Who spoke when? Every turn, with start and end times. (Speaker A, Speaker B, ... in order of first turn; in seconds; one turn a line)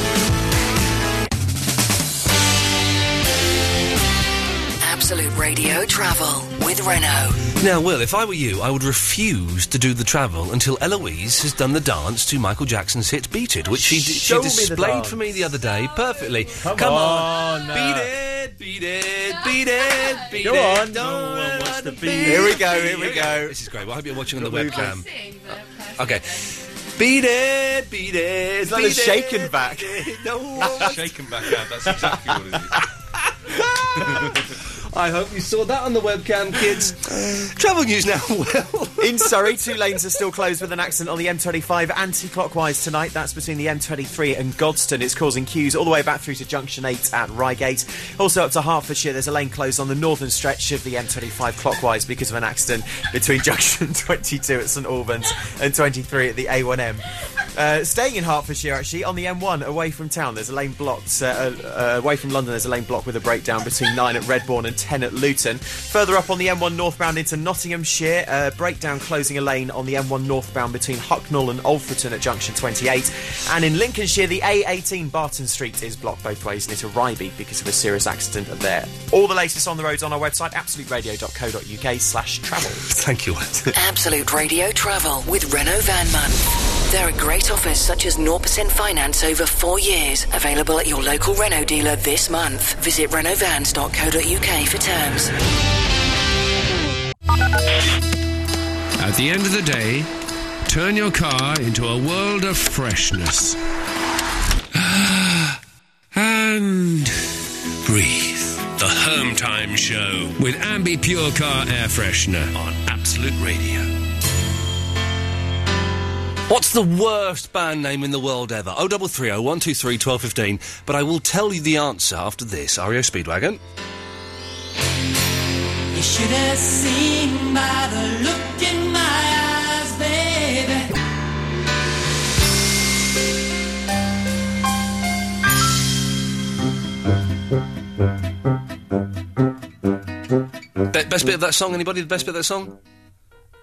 Speaker A: 4.8-7.5
Speaker B: 7.6-25.1
Speaker C: 13.7-15.2
Speaker C: 16.6-18.1
Speaker C: 20.4-21.3
Speaker D: 20.9-23.4
Speaker C: 22.1-23.6
Speaker D: 24.5-24.9
Speaker C: 24.5-24.9
Speaker B: 25.9-31.1
Speaker C: 28.7-30.1
Speaker C: 30.6-30.9
Speaker D: 30.6-32.8
Speaker B: 33.5-39.3
Speaker C: 39.0-82.9
Speaker B: 82.9-83.7
Speaker A: 83.7-95.3
Speaker E: 99.0-100.1
Speaker E: 100.7-103.6
Speaker E: 104.7-105.6
Speaker E: 106.1-107.2
Speaker E: 107.8-113.9
Speaker B: 116.5-123.6
Speaker F: 125.9-130.9
Speaker B: 140.9-142.8